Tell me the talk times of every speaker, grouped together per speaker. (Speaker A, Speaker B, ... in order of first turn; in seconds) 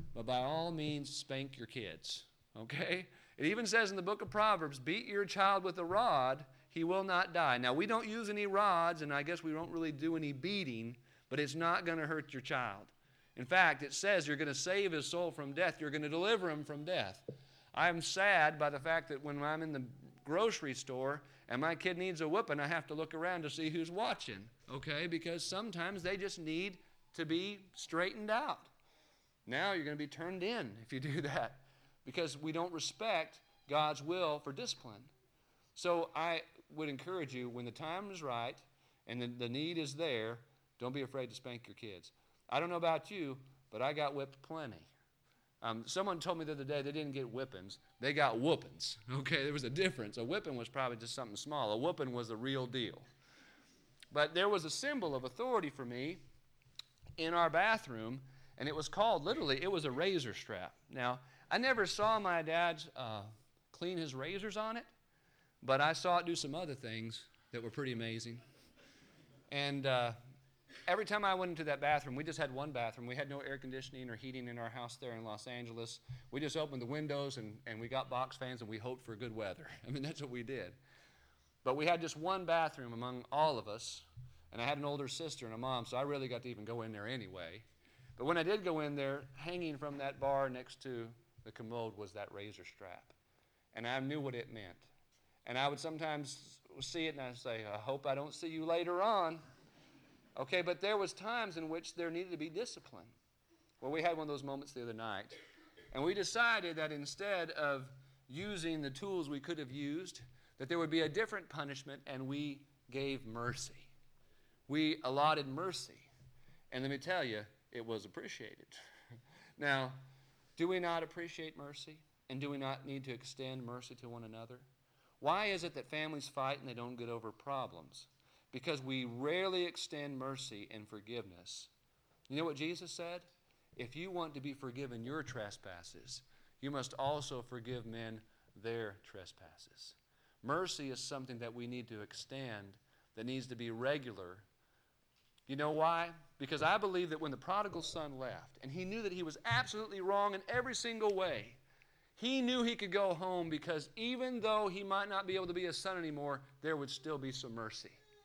Speaker A: 0.1-28.7, 29.5-35.1, 35.8-44.9, 45.6-53.1, 54.1-56.2, 57.2-64.9, 65.6-68.4, 69.5-70.2, 70.9-80.8, 81.6-87.7, 88.2-93.2, 93.7-94.9, 95.5-99.4, 100.4-103.2, 103.8-105.4, 105.9-113.9, 114.7-116.1, 116.7-118.8, 119.6-120.0, 120.6-124.7, 125.2-131.7, 132.3-144.5, 145.5-151.6, 152.2-158.0